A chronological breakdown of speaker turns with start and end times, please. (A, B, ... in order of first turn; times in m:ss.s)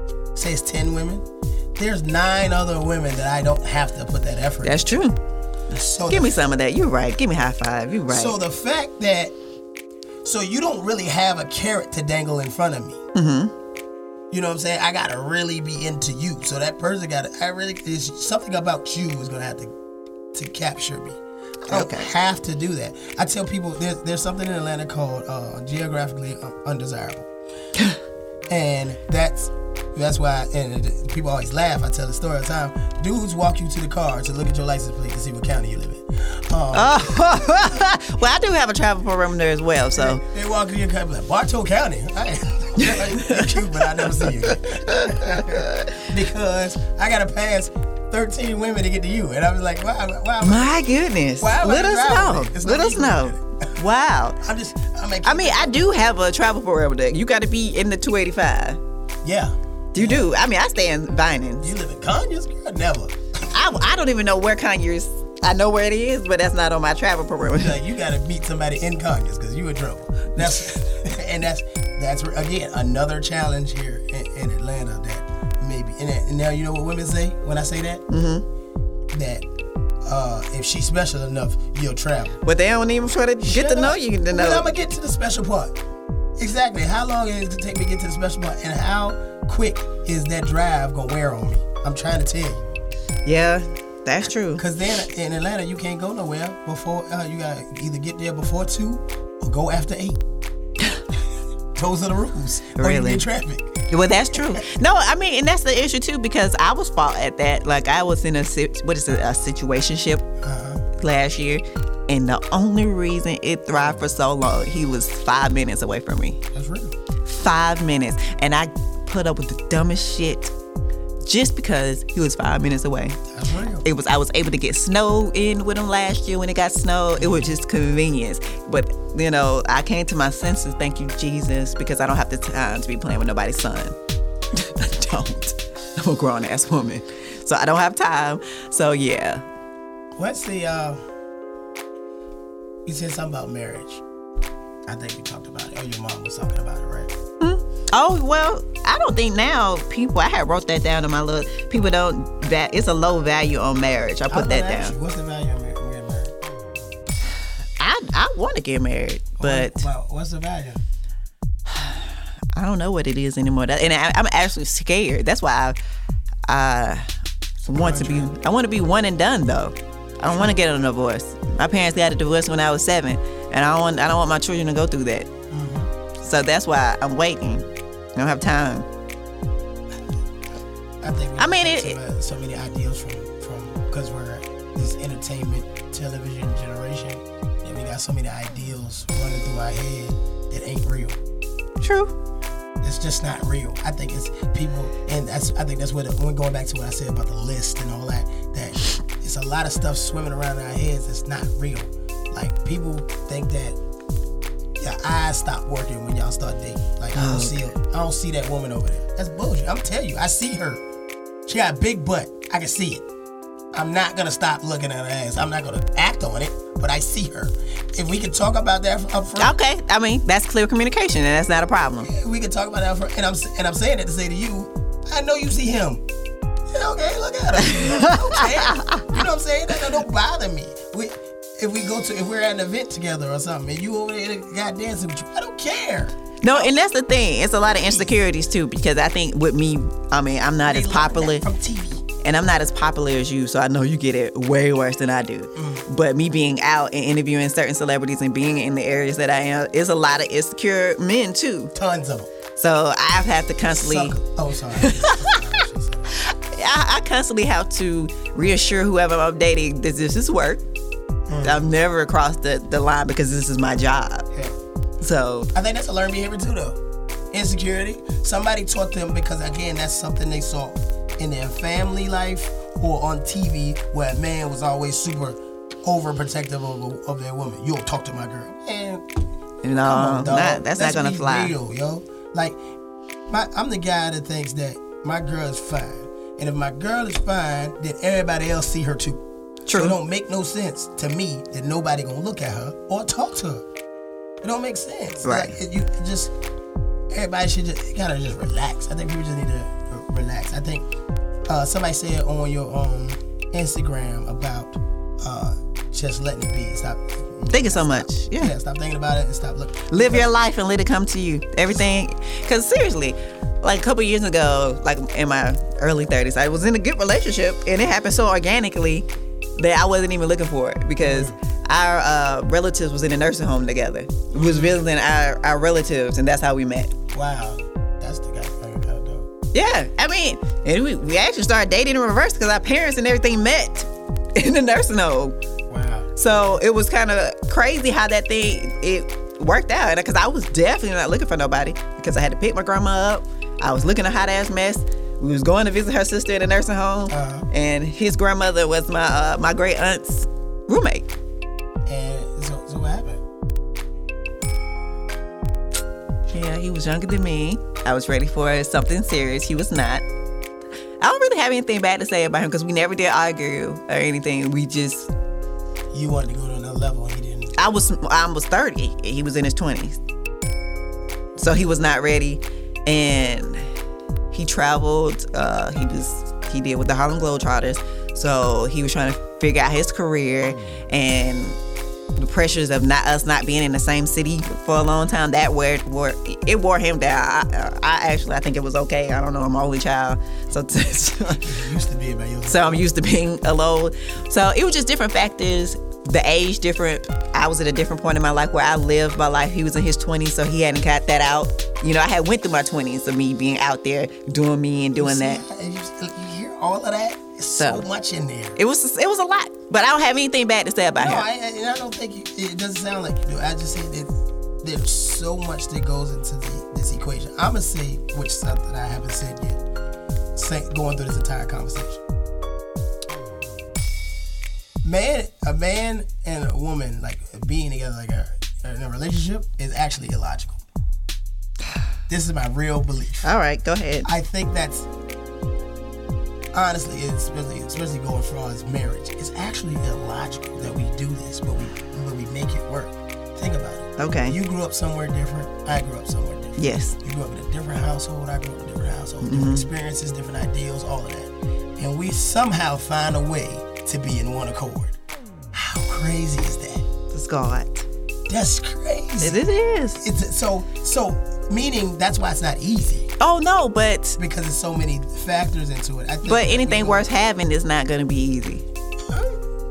0:00.4-0:05.0 A
0:04.6-0:05.2 B
0:05.7-0:06.4 A
0:06.0-0:08.4 B
0:08.1-0:09.3 A
0:10.2-0:13.0 A
0:13.2-0:13.5 B
0:14.3-0:19.7 A
0:20.3-0:27.3 A
0:21.7-0:22.1 B
0:28.5-0:37.2 A
0:36.7-0:40.2 B
0:40.0-0:50.7 A
0:42.8-0:43.6 B
0:44.2-0:46.0 B
0:50.4-0:54.4 B
0:51.4-0:53.7 A
0:54.4-0:55.8 A
0:55.2-0:58.8 B
0:59.2-1:00.3 A
1:00.0-1:01.7 B
1:01.6-1:03.6 A
1:03.5-1:07.8 B
1:07.4-1:18.1 A
1:18.1-1:18.4 B
1:19.1-1:19.5 A
1:20.0-1:22.4 A
1:22.4-1:24.7 B
1:23.4-1:25.8 A
1:26.4-1:32.6 A
1:33.2-1:34.6 B
1:34.6-1:40.2 A
1:41.8-1:44.6 A
1:42.8-1:43.2 B
1:43.9-1:50.2 B
1:50.4-1:50.8 A
1:51.0-1:56.4 B
1:53.7-1:54.1 A
1:56.5-1:57.0 A
1:57.2-2:00.5 B
2:01.2-2:03.2 B
2:03.3-2:03.9 A
2:03.8-2:14.0 B
2:07.2-2:07.5 A
2:14.5-2:19.4 B
2:20.2-2:21.0 A
2:22.8-2:24.0 A
2:24.9-2:27.1 A
2:27.4-2:35.0 B
2:34.3-2:36.3 A
2:37.8-2:39.9 B
2:39.4-2:40.8 A
2:41.7-2:45.8 B
2:46.5-2:47.1 B
2:47.6-2:55.3 B
2:47.7-2:48.3 A
2:55.5-2:55.9 A
2:56.2-2:58.9 B
3:01.0-3:11.2 A
3:01.4-3:02.0 B
3:11.8-3:12.1 B
3:12.8-3:23.8 A
3:24.8-3:30.8 A
3:27.1-3:27.6 B
3:31.5-3:33.0 A
3:33.7-3:39.6 A
3:39.4-3:42.1 B
3:42.0-3:46.0 A
3:46.7-3:56.8 A
3:47.6-3:49.2 B
3:56.4-4:01.4 B
3:57.7-3:58.2 A
4:00.7-4:02.0 A
4:02.2-4:11.7 B
4:05.6-4:05.9 A
4:11.8-4:12.3 A
4:12.6-4:14.2 B
4:13.7-4:16.2 A
4:14.8-4:15.4 B
4:16.2-4:20.6 B
4:21.3-4:21.7 A
4:21.4-4:24.3 B
4:25.0-4:25.5 B
4:25.5-4:26.8 A
4:27.3-4:39.1 A
4:39.6-4:41.6 B
4:39.8-4:42.6 A
4:43.3-4:53.6 A
4:49.7-4:50.0 B
4:54.4-4:56.3 A
4:55.2-4:55.6 B
4:57.1-5:00.9 A
5:01.5-5:10.3 A
5:07.5-5:08.5 B
5:09.9-5:26.9 B
5:21.0-5:21.4 A
5:24.3-5:24.8 A
5:27.1-5:29.3 A
5:29.5-5:35.4 B
5:35.7-5:36.6 A
5:36.2-5:51.1 B
5:47.1-5:47.5 A
5:51.9-5:53.2 A
5:56.3-6:00.0 B
6:01.0-6:05.1 B
6:05.9-6:07.6 A
6:07.6-6:10.0 B
6:11.4-6:13.7 B
6:14.3-6:21.6 B
6:22.2-6:31.6 B
6:31.4-6:32.9 A
6:32.5-6:45.4 B
6:45.0-6:48.6 A
6:47.6-6:47.9 B
6:48.6-6:51.3 B
6:51.0-6:59.6 A
7:00.4-7:02.0 A
7:04.8-7:10.6 A
7:12.1-7:13.3 A
7:13.2-7:14.1 B
7:14.0-7:14.9 A
7:16.5-7:35.0 A
7:24.0-7:24.4 B
7:26.6-7:27.0 B
7:29.2-7:29.7 B
7:35.5-7:36.9 A
7:37.1-7:37.9 B
7:38.3-7:39.4 A
7:39.2-7:40.0 B
7:40.0-7:43.1 A
7:43.2-7:44.2 B
7:44.2-7:47.1 A
7:46.3-7:48.6 B
7:49.1-7:49.4 A